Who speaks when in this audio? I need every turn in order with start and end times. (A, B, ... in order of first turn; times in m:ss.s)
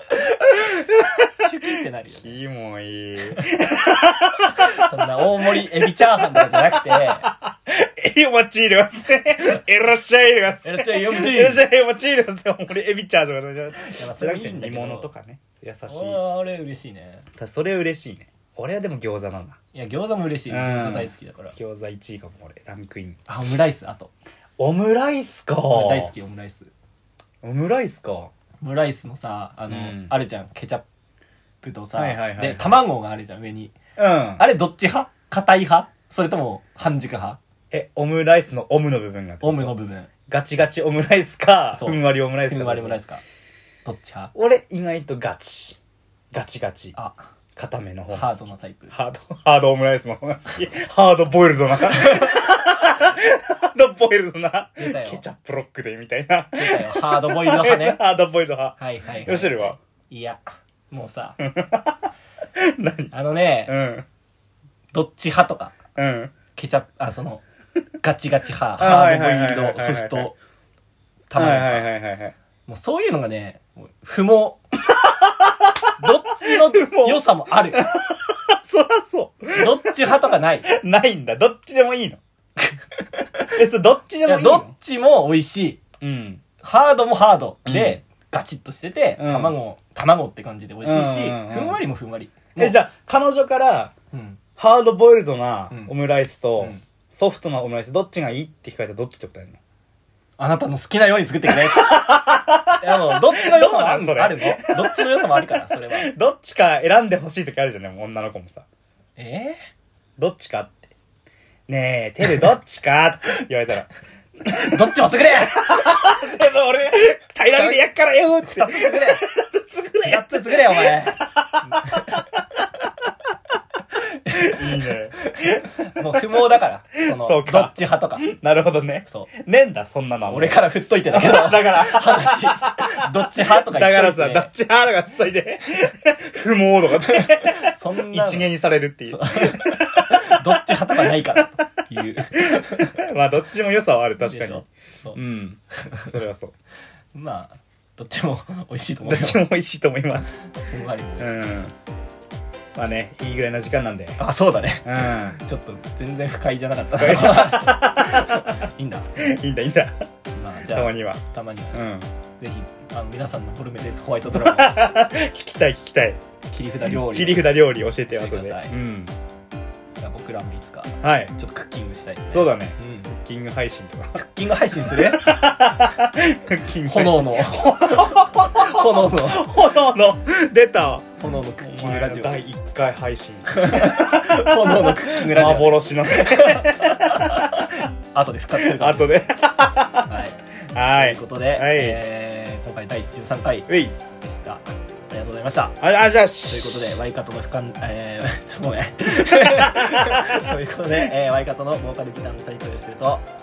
0:00.5-0:01.5 A
0:01.4-0:02.4 B
0:02.1-0:16.2 A
0:04.6-0:07.3 B
0:10.6-0:11.6 B
0:13.8-0:15.1 B
0:15.9-0:17.3 B
0:17.4-0:19.6 A
0:19.7-0:21.6 B
0:20.5-0:23.2 A
0:23.3-0:24.1 B
0:24.6-0:26.1 A
0:25.7-0:26.7 B
0:27.4-0:28.3 A
0:28.6-0:30.8 B
0:29.7-0:30.1 A
0:31.6-0:33.8 B
0:32.0-0:32.8 A
0:34.0-0:34.4 A
0:34.4-0:37.4 B
0:37.7-0:39.8 A
0:39.4-0:40.1 B
0:40.3-0:43.0 A
0:41.8-0:43.2 B
0:43.8-0:44.3 B
0:44.4-0:45.8 A
0:46.3-0:47.0 A
0:47.6-0:59.8 A
0:48.1-0:49.0 B
0:54.8-0:55.2 B
0:56.6-0:58.0 B
0:58.8-1:01.4 B
1:01.4-1:03.1 A
1:03.1-1:03.7 B
1:03.7-1:04.1 A
1:04.9-1:05.8 B
1:06.0-1:06.3 A
1:06.6-1:07.4 B
1:08.0-1:10.4 B
1:08.8-1:10.3 A
1:11.3-1:11.9 B
1:11.4-1:12.4 A
1:12.7-1:14.6 B
1:14.9-1:22.2 A
1:16.0-1:17.8 B
1:19.5-1:20.7 B
1:23.2-1:23.6 B
1:23.5-1:24.7 A
1:24.2-1:25.8 B
1:26.0-1:26.4 A
1:26.6-1:32.8 B
1:27.7-1:28.0 A
1:29.2-1:29.6 A
1:30.8-1:31.8 A
1:32.6-1:34.0 A
1:34.1-1:34.4 B
1:34.6-1:39.6 A
1:40.4-1:42.3 B
1:41.5-1:48.7 A
1:42.8-1:46.1 B
1:49.2-1:49.6 B
1:50.2-1:50.9 A
1:51.7-1:53.9 A
1:54.4-2:02.7 A
1:54.6-1:55.7 B
1:57.5-1:57.8 B
1:58.4-1:59.2 B
2:00.0-2:02.2 B
2:04.1-2:08.3 B
2:04.3-2:21.4 A
2:09.1-2:09.3 B
2:10.2-2:14.5 B
2:17.1-2:18.5 B
2:19.1-2:22.9 B
2:22.4-2:26.5 A
2:24.2-2:25.2 B
2:25.8-2:26.1 B
2:27.1-2:29.4 B
2:29.0-2:30.4 A
2:30.7-2:31.4 B
2:31.2-2:31.7 A
2:32.8-2:34.2 A
2:34.2-2:39.3 B
2:34.8-2:35.4 A
2:37.0-2:38.6 A
2:39.2-2:40.0 A
2:40.3-2:41.8 B
2:40.7-2:41.2 A
2:41.7-2:42.1 A
2:42.4-2:44.8 B
2:44.3-2:46.2 A
2:46.5-2:47.5 B
2:46.8-2:49.2 A
2:48.1-2:48.7 B
2:50.0-2:53.1 B
2:51.0-2:51.3 A
2:52.3-2:54.2 A
2:54.2-2:55.4 B
2:54.8-3:07.8 A
2:56.9-2:59.5 B
3:01.2-3:02.4 B
3:03.5-3:09.2 B
3:08.6-3:10.1 A
3:10.0-3:10.4 B
3:10.7-3:12.0 A
3:10.9-3:15.8 B
3:13.7-3:14.0 A
3:15.8-3:17.0 A
3:16.5-3:23.2 B
3:19.2-3:21.1 A